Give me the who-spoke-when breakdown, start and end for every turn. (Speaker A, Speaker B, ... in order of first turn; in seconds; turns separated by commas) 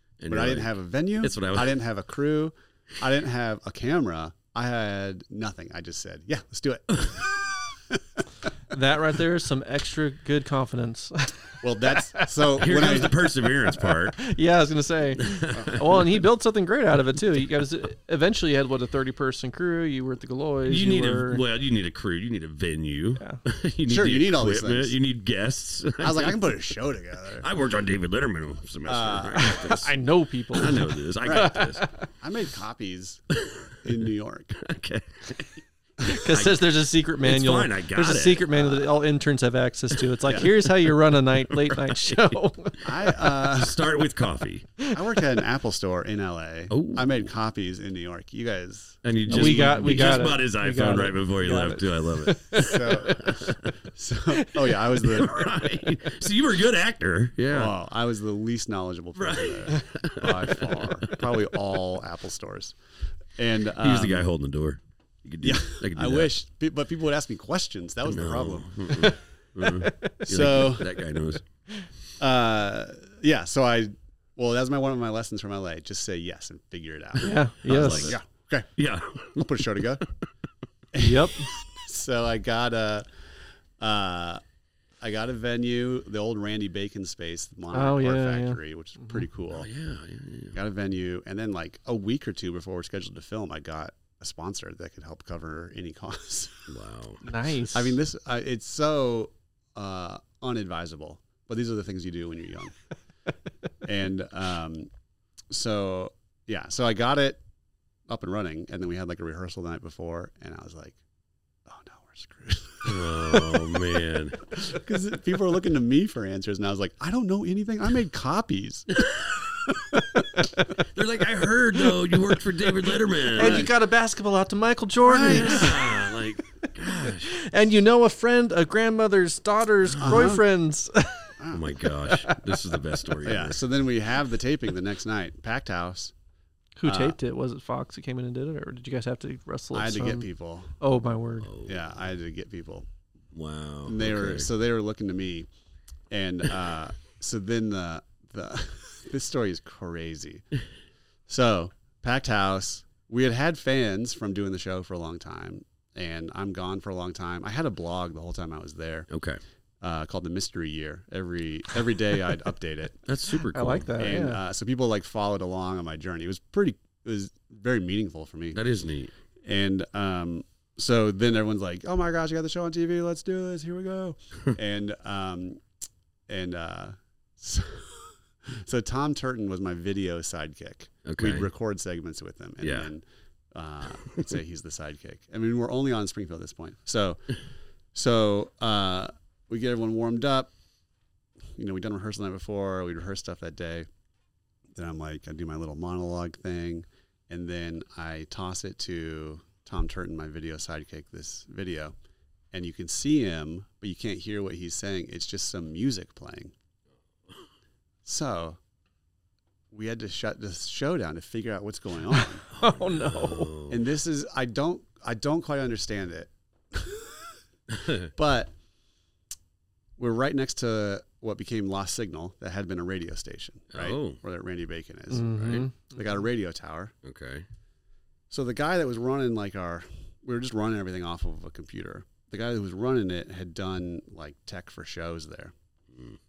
Speaker A: 0.2-1.8, Speaker B: 0.3-8.2, Speaker C: 8.7-12.4, Speaker B: 11.6-13.1, Speaker A: 12.6-14.2, Speaker C: 13.8-21.4, Speaker A: 15.2-16.2, Speaker A: 20.7-26.4, Speaker B: 23.8-24.9, Speaker B: 26.0-27.5, Speaker A: 27.4-29.9, Speaker B: 28.9-29.7, Speaker C: 29.4-31.9, Speaker A: 30.5-31.9, Speaker B: 31.2-31.6, Speaker B: 32.2-33.2, Speaker A: 33.3-33.9, Speaker B: 33.8-34.5, Speaker A: 34.5-35.6, Speaker C: 36.0-43.1, Speaker A: 36.2-38.8, Speaker A: 41.5-42.4, Speaker B: 42.8-44.0, Speaker A: 42.9-44.7, Speaker B: 44.9-49.8, Speaker A: 46.7-47.1, Speaker A: 49.0-53.7, Speaker C: 49.3-53.4, Speaker B: 52.5-55.9, Speaker A: 55.0-57.7, Speaker B: 57.5-62.8, Speaker A: 59.1-61.2, Speaker B: 63.4-64.3, Speaker A: 63.8-66.3, Speaker B: 65.4-69.1, Speaker A: 68.1-71.4, Speaker C: 68.9-70.7, Speaker B: 70.2-70.9, Speaker B: 72.2-78.7, Speaker C: 77.2-78.2, Speaker A: 77.2-78.2, Speaker A: 78.8-79.7, Speaker B: 79.3-80.0, Speaker B: 80.9-83.1, Speaker C: 80.9-81.5, Speaker B: 83.8-84.4, Speaker B: 85.0-89.7, Speaker C: 87.7-89.2, Speaker A: 89.5-90.5, Speaker B: 90.5-96.7, Speaker A: 96.7-97.2, Speaker C: 97.2-98.0, Speaker B: 97.7-102.7, Speaker B: 103.8-104.9, Speaker B: 105.5-107.4, Speaker B: 108.1-111.0, Speaker B: 111.6-113.6, Speaker A: 112.8-114.4, Speaker B: 114.5-119.1, Speaker A: 119.0-119.6, Speaker B: 119.9-120.2, Speaker C: 120.4-120.6, Speaker A: 120.8-123.7, Speaker C: 123.3-126.1, Speaker B: 125.0-125.9, Speaker A: 125.2-127.3, Speaker C: 127.0-131.3, Speaker B: 130.0-130.4, Speaker B: 131.4-131.7, Speaker A: 131.5-133.6, Speaker C: 131.8-132.7, Speaker B: 133.2-136.1, Speaker C: 136.8-140.3, Speaker B: 136.8-137.2, Speaker B: 139.7-140.7, Speaker C: 140.8-141.5, Speaker A: 141.4-141.8, Speaker B: 141.7-142.9, Speaker A: 143.3-144.5, Speaker B: 143.8-145.5, Speaker B: 146.1-150.4, Speaker B: 151.3-159.1, Speaker A: 159.1-159.4, Speaker B: 159.8-163.0, Speaker A: 163.1-163.9, Speaker C: 163.5-164.4, Speaker B: 164.0-168.6, Speaker A: 168.5-169.1, Speaker B: 169.4-175.6, Speaker B: 176.3-187.3, Speaker A: 181.0-181.5, Speaker A: 182.6-182.9, Speaker B: 187.9-190.5, Speaker B: 191.6-193.9, Speaker B: 194.7-201.9, Speaker B: 202.5-206.5, Speaker B: 208.0-208.6, Speaker B: 209.7-212.4, Speaker C: 212.1-213.5, Speaker A: 212.6-213.8, Speaker B: 213.7-217.3, Speaker A: 217.7-218.1, Speaker B: 218.1-218.5, Speaker B: 220.0-226.9, Speaker A: 223.7-224.2, Speaker C: 225.1-225.9, Speaker A: 227.0-227.4, Speaker B: 228.3-235.5